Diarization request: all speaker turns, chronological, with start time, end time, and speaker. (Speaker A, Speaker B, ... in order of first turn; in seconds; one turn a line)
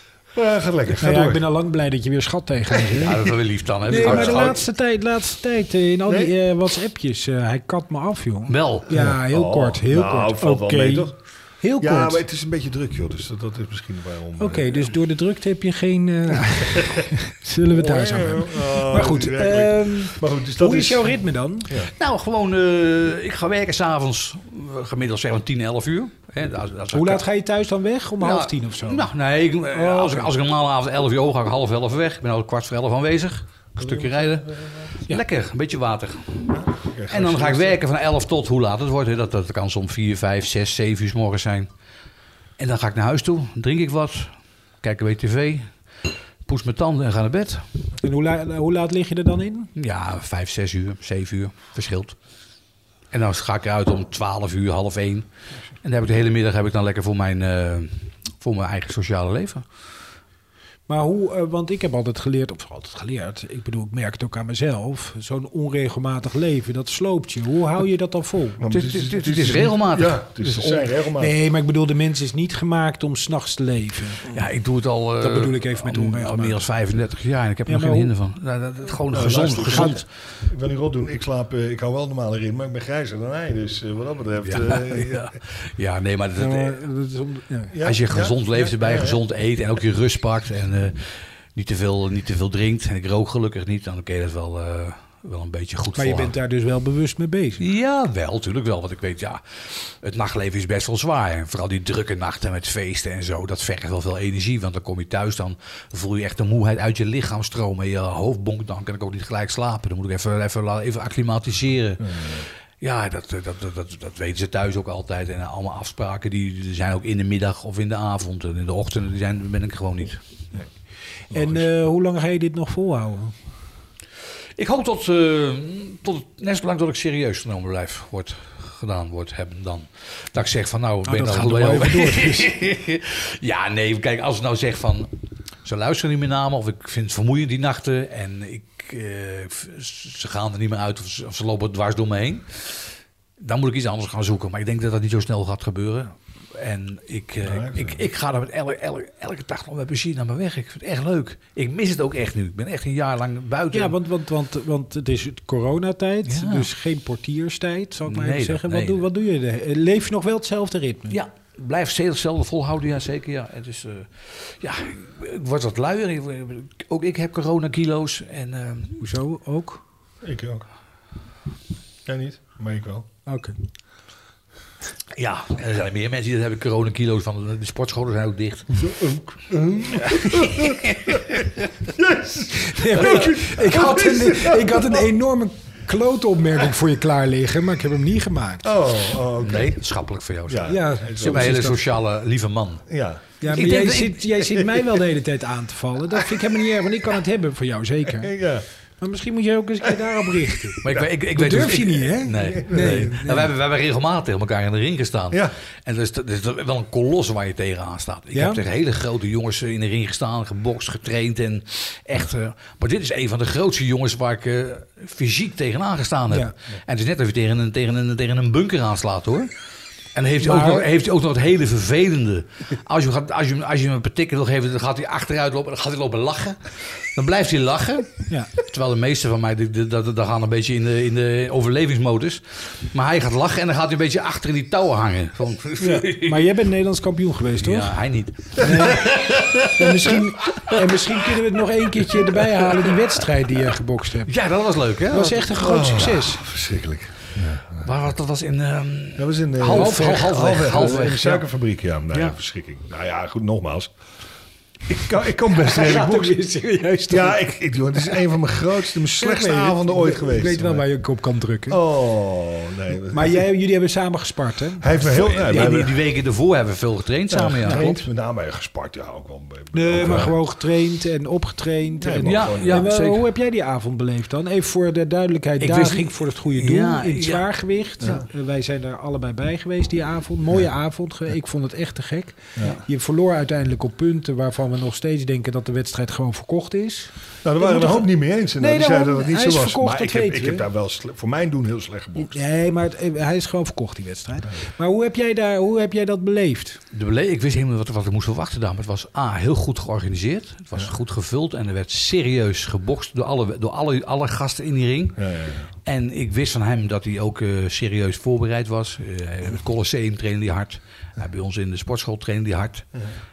Speaker A: 0.3-1.4
Speaker B: 1.0-12.2
Speaker C: 3.0-4.6
Speaker A: 3.9-4.6
Speaker A: 6.0-6.3
Speaker C: 8.5-8.9
Speaker A: 8.9-11.2
Speaker A: 11.8-14.9
Speaker B: 14.4-21.7
Speaker A: 16.4-17.1
Speaker A: 17.7-21.2
Speaker C: 21.8-27.2
Speaker B: 26.9-29.1
Speaker C: 28.2-41.7
Speaker B: 29.7-30.3
Speaker A: 33.8-34.9
Speaker A: 36.5-37.8
Speaker C: 42.6-47.6
Speaker B: 48.0-49.7
Speaker C: 49.7-52.2
Speaker C: 53.1-59.7
Speaker B: 60.9-68.6
Speaker A: 68.6-71.3
Speaker C: 68.7-70.8
Speaker B: 71.2-74.4
Speaker C: 74.3-80.0
Speaker B: 75.2-76.6
Speaker B: 77.7-78.1
Speaker A: 79.1-85.3
Speaker B: 79.6-80.0
Speaker C: 84.4-86.8
Speaker B: 86.4-87.8
Speaker A: 87.7-89.2
Speaker C: 87.8-96.3
Speaker B: 96.0-97.6
Speaker C: 97.6-120.2
Speaker A: 112.0-112.4
Speaker B: 121.3-123.3
Speaker A: 121.3-121.6
Speaker C: 124.6-135.1
Speaker B: 131.1-132.5
Speaker C: 135.6-153.9
Speaker A: 147.4-148.0
Speaker B: 153.7-161.2
Speaker C: 156.2-156.7
Speaker C: 158.1-159.0
Speaker C: 161.1-169.1
Speaker B: 169.0-169.8
Speaker A: 170.2-170.6
Speaker A: 172.0-173.1
Speaker B: 173.2-173.5
Speaker C: 175.1-178.8
Speaker A: 178.7-185.1
Speaker C: 180.0-181.7
Speaker B: 182.6-188.7
Speaker A: 188.6-189.8
Speaker C: 189.4-192.9
Speaker A: 190.5-191.7
Speaker B: 190.6-191.8
Speaker A: 192.9-193.2
Speaker B: 193.4-198.4
Speaker C: 193.5-194.2
Speaker A: 194.4-195.0
Speaker A: 196.1-196.6
Speaker A: 198.1-198.7
Speaker B: 199.0-203.5
Speaker A: 199.8-201.1
Speaker C: 200.8-219.5
Speaker A: 202.3-203.1
Speaker B: 208.3-208.6
Speaker C: 220.1-236.4
Speaker B: 220.4-220.9
Speaker A: 235.8-236.1
Speaker B: 236.2-238.0
Speaker C: 237.6-240.7
Speaker B: 238.5-244.3
Speaker C: 242.1-243.2
Speaker C: 244.2-246.2
Speaker B: 245.1-246.4
Speaker A: 245.6-247.9
Speaker C: 247.8-251.4
Speaker A: 249.2-253.9
Speaker B: 249.7-251.2
Speaker A: 254.9-256.4
Speaker B: 255.5-257.4
Speaker A: 257.1-260.9
Speaker B: 257.9-258.2
Speaker B: 259.2-261.8
Speaker A: 261.7-263.4
Speaker B: 263.1-265.8
Speaker A: 264.8-265.9
Speaker C: 265.0-268.0
Speaker A: 267.3-270.4
Speaker B: 267.6-267.9
Speaker B: 269.7-290.6
Speaker A: 272.0-272.9
Speaker C: 272.2-273.2
Speaker C: 275.6-277.5
Speaker A: 278.0-278.2
Speaker A: 282.6-282.8
Speaker A: 287.4-292.4
Speaker B: 292.1-296.8
Speaker C: 296.9-305.2
Speaker A: 305.2-305.7
Speaker C: 305.8-312.9